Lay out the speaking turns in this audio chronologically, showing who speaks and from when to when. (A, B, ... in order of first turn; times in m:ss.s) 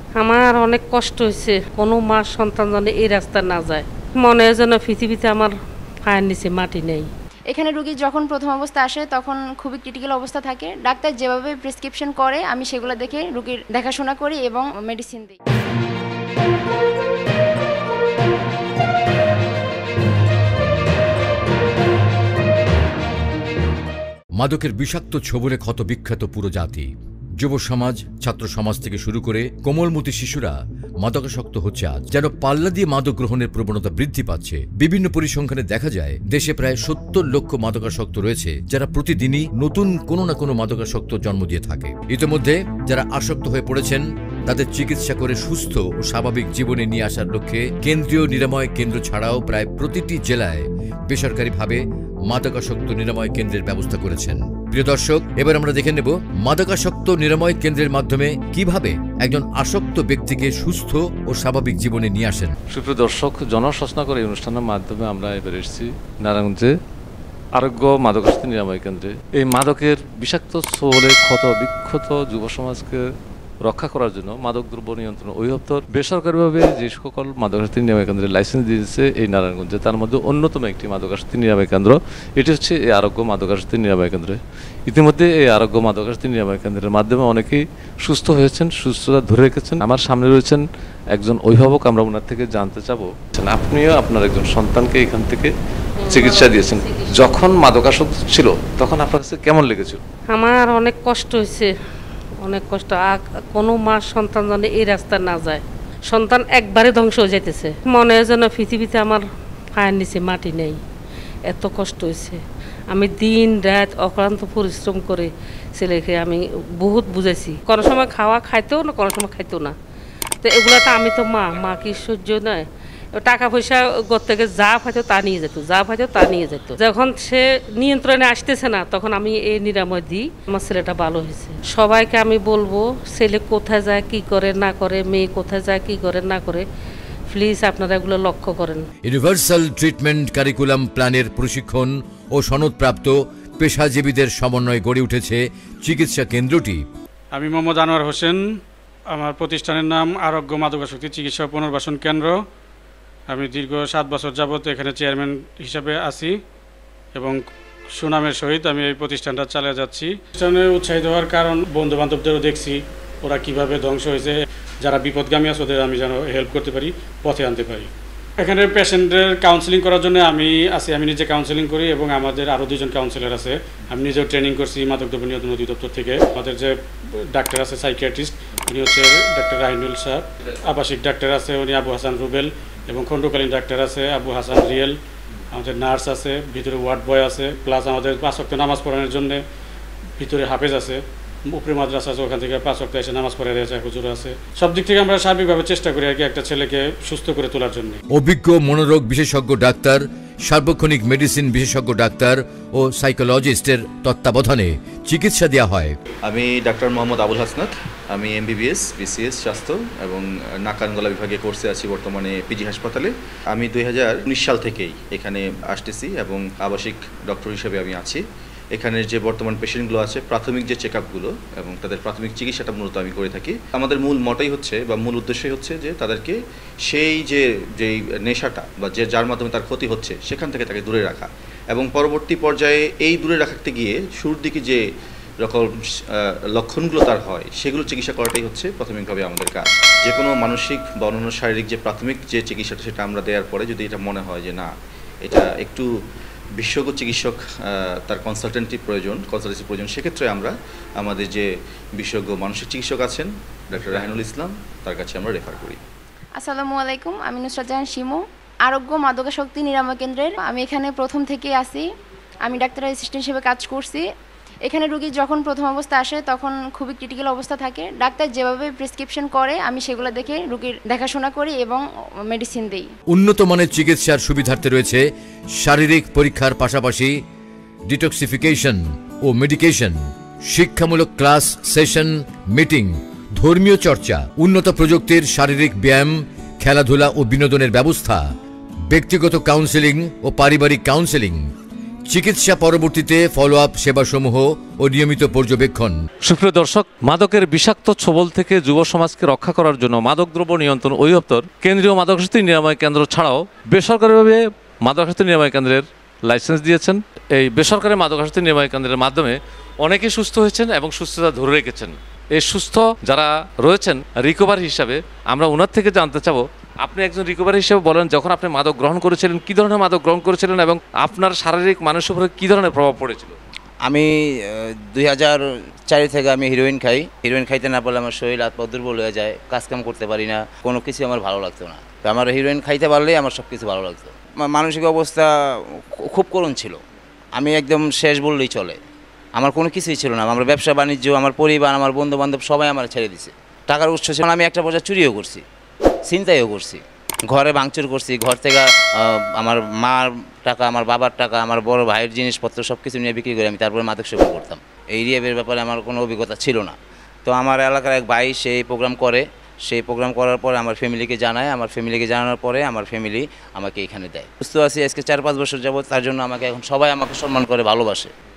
0:00.2-0:05.5 A
0:06.1-0:07.1 A
0:07.5-0:15.4 B
0:24.4-1:02.5 C
1:02.7-1:06.7 D
1:07.5-1:13.0 D
1:13.6-1:35.5 D
1:36.0-1:37.3 A
1:36.1-1:40.0 D
1:40.3-1:41.7 A
1:42.4-1:49.2 A
1:49.8-1:50.8 A
1:51.5-1:59.7 A
2:00.4-2:02.6 A
2:03.2-2:16.6 A
2:17.3-2:18.8 A
2:19.0-2:26.8 C
2:27.4-2:28.4 E
2:29.1-2:32.3 E
2:33.3-2:36.4 E
2:37.1-2:37.4 E
2:38.0-2:47.9 E
2:48.4-2:56.8 E
2:57.3-3:05.0 E
3:05.6-3:09.4 E
3:10.2-3:11.0 E
3:11.5-3:18.0 E
3:18.1-3:26.0 C
3:26.2-3:38.2 F
3:38.7-3:54.8 F
3:55.4-4:04.7 F
4:05.2-4:05.8 F
4:06.6-4:11.4 F
4:12.0-4:15.8 F
4:16.4-4:21.8 B
4:22.4-4:24.0 B
4:24.6-4:32.9 B
4:33.1-4:35.0 C
4:35.6-4:37.1 C
4:37.9-4:40.0 C
4:40.5-4:48.2 C
4:48.9-4:51.4 C
4:52.1-4:55.9 C
4:56.2-5:23.3 D
5:23.8-5:35.3 G
5:36.0-5:36.8 G
5:37.3-5:38.8 G
5:39.3-5:45.4 G
5:46.0-6:08.1 G